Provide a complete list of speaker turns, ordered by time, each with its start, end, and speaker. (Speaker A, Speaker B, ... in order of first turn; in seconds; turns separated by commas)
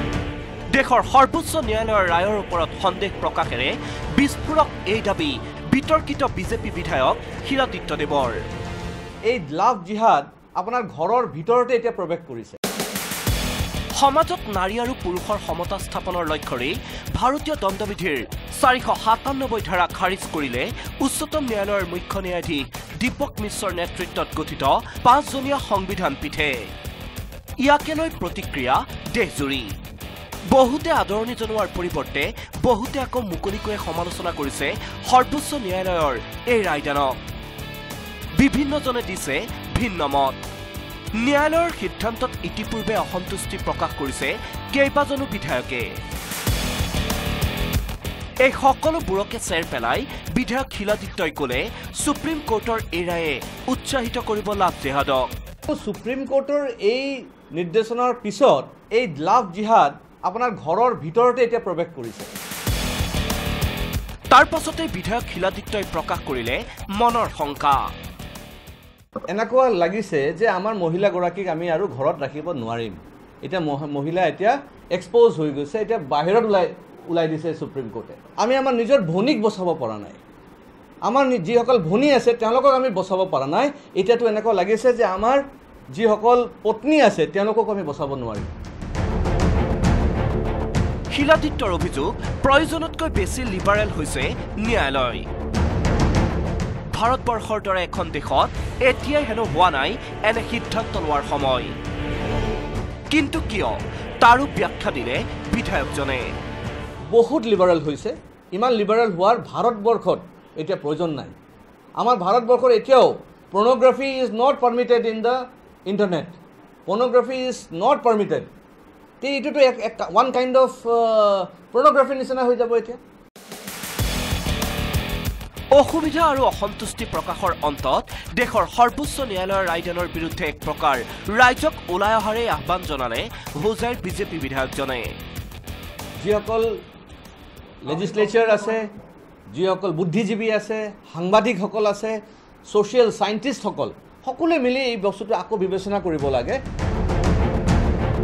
Speaker A: 0.7-8.4, Speaker B: 9.3-12.6, Speaker A: 13.9-26.7, Speaker A: 27.6-29.8, Speaker A: 30.5-37.2, Speaker A: 38.4-40.4, Speaker A: 41.2-45.9, Speaker A: 48.4-55.3, Speaker B: 55.7-62.3, Speaker A: 64.3-67.9, Speaker B: 69.3-80.2, Speaker B: 81.1-85.4, Speaker B: 85.9-88.5, Speaker A: 91.1-95.2, Speaker A: 96.9-101.7, Speaker A: 103.1-106.3, Speaker B: 107.1-111.3, Speaker B: 112.0-118.5, Speaker B: 119.2-123.0, Speaker A: 125.8-135.2, Speaker B: 136.2-136.7, Speaker B: 137.8-138.8, Speaker B: 139.5-146.6